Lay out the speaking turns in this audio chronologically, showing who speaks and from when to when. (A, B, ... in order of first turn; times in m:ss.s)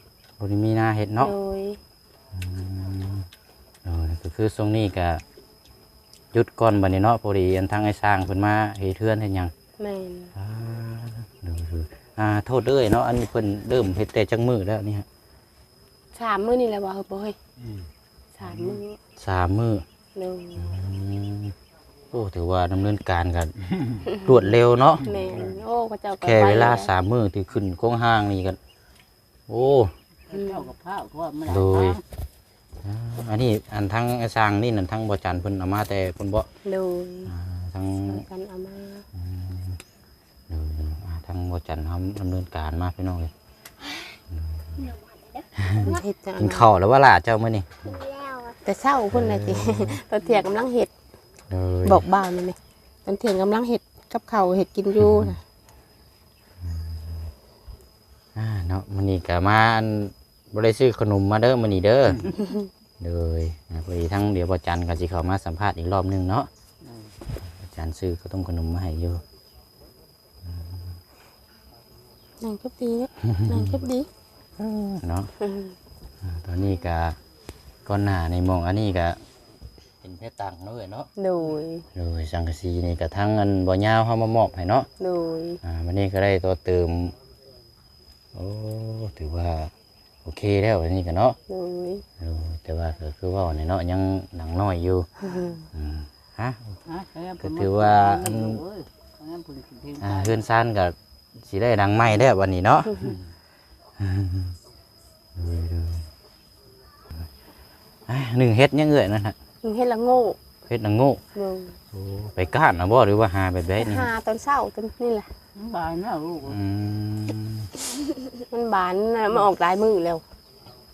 0:00.4-0:01.3 A
0:01.2-0:01.8 B
0:02.4-0:03.3 A
0:03.8-0:05.2 A
0:06.3-0:09.5 A
0:09.8-0:10.3 B
0:10.4-0:15.1 A
0:16.2-0:17.4 B
0:18.4-0:19.0 B
0:19.2-0:19.8 A
0:20.2-0:20.7 B
0:20.6-0:21.6 A
0:22.1-0:25.1 A
0:25.1-0:26.9 B
0:26.2-0:28.6 A
0:29.5-0:29.9 A
0:30.3-0:30.7 B
0:30.3-0:31.9 C
0:31.4-0:32.0 A
0:32.8-0:36.5 A
0:36.6-0:37.3 B
0:37.3-0:38.2 A
0:38.1-0:39.0 B
0:39.1-0:39.8 A
0:40.5-0:43.3 A
0:44.3-0:44.9 A
0:45.6-0:47.9 A
0:45.8-0:46.7 B
0:48.5-0:50.9 B
0:49.1-0:50.0 A
0:51.5-0:52.1 A
0:51.8-0:55.4 B
0:55.0-0:55.4 A
0:56.7-0:57.0 A
0:58.4-1:02.3 A
1:03.0-1:06.5 A
1:07.6-1:09.2 A
1:12.4-1:14.1 B
1:13.2-1:13.8 A
1:14.6-1:15.3 A
1:15.4-1:15.7 B
1:16.2-1:17.2 A
1:17.9-1:19.2 A
1:20.0-1:21.1 A
1:21.2-1:21.9 B
1:22.0-1:24.9 A
1:25.0-1:25.6 B
1:25.6-1:27.2 A
1:28.3-1:29.7 A
1:30.2-1:31.4 A
1:31.5-1:32.0 B
1:32.2-1:35.1 A
1:35.3-1:35.6 B
1:35.7-1:36.8 A
1:36.9-1:40.0 C
1:37.4-1:38.6 A
1:40.0-1:43.1 A
1:44.0-1:44.6 A
1:45.4-1:46.1 A
1:48.1-1:49.4 A
1:49.6-1:50.4 B
1:50.7-1:51.2 A
1:51.4-1:51.8 B
1:51.9-1:54.1 A
1:53.8-1:55.3 B
1:55.6-1:56.4 C
1:56.4-1:57.7 A
1:58.4-2:00.2 B